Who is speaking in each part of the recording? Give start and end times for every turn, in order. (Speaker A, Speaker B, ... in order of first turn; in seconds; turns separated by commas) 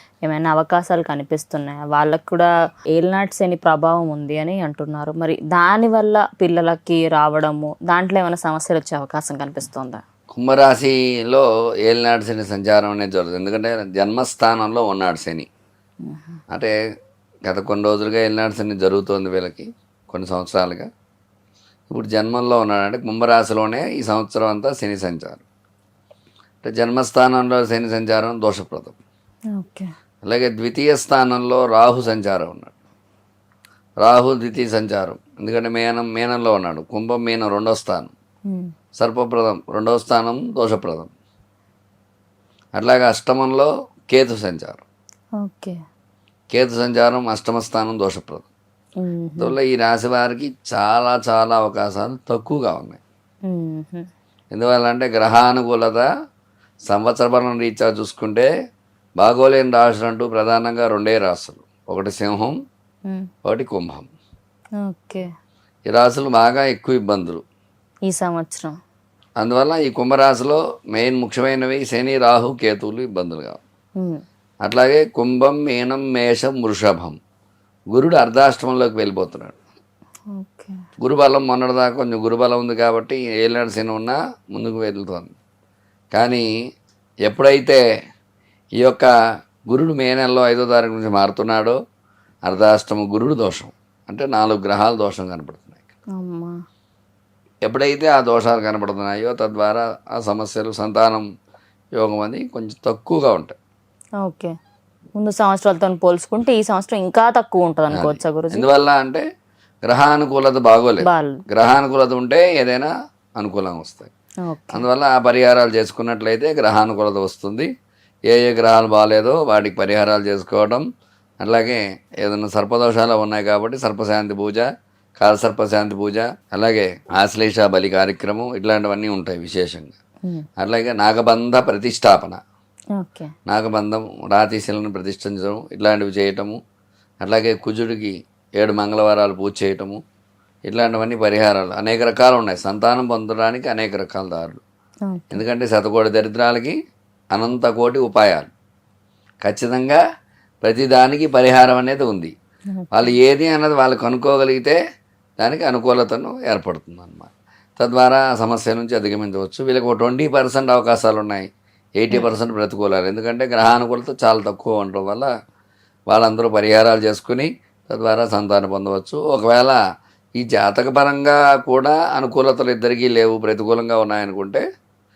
Speaker A: 0.2-10.0, Speaker B: 10.3-15.5, Speaker A: 16.1-16.4, Speaker B: 17.5-20.9, Speaker B: 21.9-25.4, Speaker B: 26.6-29.0, Speaker A: 29.5-29.9, Speaker B: 30.2-32.7, Speaker B: 34.0-38.1, Speaker B: 39.0-41.1, Speaker B: 42.8-44.8, Speaker A: 45.4-45.8, Speaker B: 46.5-48.5, Speaker A: 49.0-49.5, Speaker B: 49.4-53.0, Speaker A: 53.5-54.0, Speaker B: 54.5-56.1, Speaker B: 56.9-58.5, Speaker B: 59.2-62.6, Speaker B: 63.5-64.1, Speaker A: 64.8-65.3, Speaker B: 65.9-67.4, Speaker A: 68.1-68.8, Speaker B: 69.4-73.6, Speaker B: 74.6-77.2, Speaker B: 77.9-79.6, Speaker A: 80.3-80.8, Speaker B: 81.0-85.4, Speaker B: 86.1-86.5, Speaker B: 87.3-87.8, Speaker B: 88.8-89.1, Speaker B: 89.7-91.8, Speaker B: 92.5-95.9, Speaker A: 96.2-96.6, Speaker B: 97.7-101.3, Speaker B: 102.0-103.6, Speaker A: 104.2-104.5, Speaker A: 105.2-108.7, Speaker B: 107.9-109.2, Speaker B: 109.8-114.1, Speaker A: 111.0-111.4, Speaker A: 114.5-114.8, Speaker B: 114.7-117.7, Speaker B: 118.3-120.9, Speaker B: 121.4-124.7, Speaker B: 125.2-130.0, Speaker B: 130.6-132.4, Speaker A: 133.0-133.3, Speaker B: 133.5-136.6, Speaker B: 137.2-140.0, Speaker B: 140.7-144.6, Speaker A: 145.1-145.4, Speaker B: 145.3-146.8, Speaker B: 147.3-148.5, Speaker B: 149.4-150.0, Speaker B: 150.6-152.3, Speaker A: 152.7-153.1, Speaker B: 152.9-154.8, Speaker B: 155.4-161.5, Speaker B: 162.0-165.3, Speaker B: 166.1-169.8, Speaker B: 170.4-174.6